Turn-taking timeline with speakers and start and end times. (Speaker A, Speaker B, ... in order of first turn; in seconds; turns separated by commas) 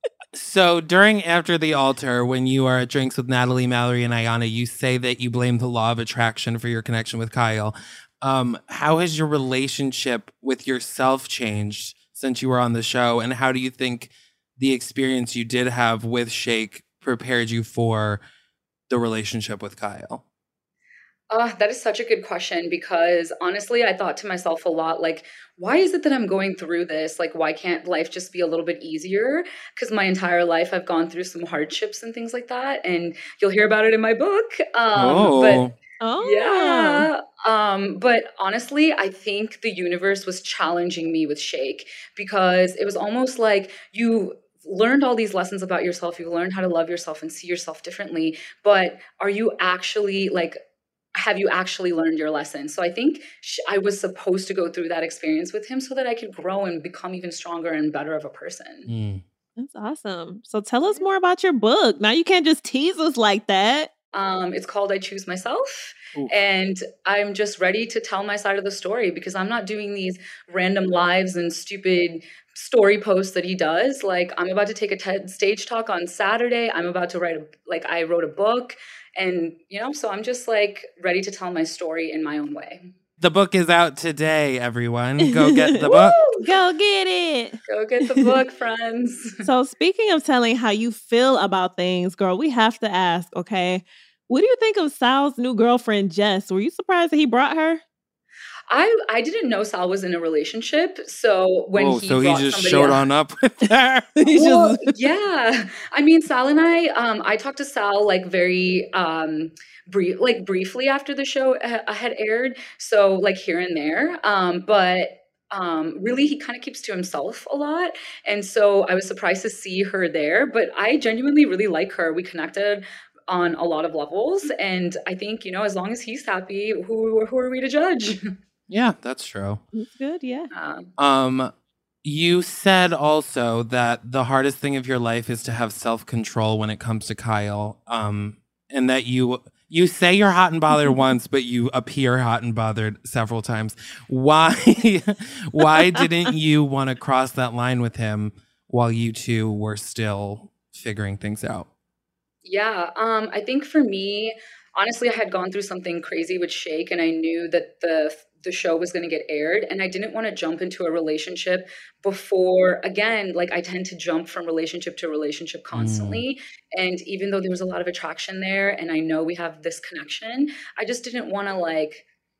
Speaker A: 0.3-18.2, Speaker A: 18.9-20.2, Speaker B: 21.3-35.7, Speaker A: 35.0-35.7, Speaker C: 36.0-37.1, Speaker B: 36.2-50.6, Speaker B: 51.1-58.9, Speaker A: 58.9-59.2, Speaker C: 59.6-63.9, Speaker B: 64.1-82.8, Speaker A: 83.2-86.2, Speaker C: 85.2-87.6, Speaker B: 85.8-86.5, Speaker B: 87.7-89.5, Speaker C: 89.4-97.8, Speaker B: 98.7-103.0, Speaker A: 101.8-104.2, Speaker C: 104.2-104.9, Speaker B: 104.3-128.3, Speaker A: 128.7-129.6, Speaker C: 129.7-130.5, Speaker B: 130.5-130.9, Speaker A: 131.0-131.5, Speaker A: 132.0-151.7, Speaker B: 152.4-172.0, Speaker A: 165.7-166.2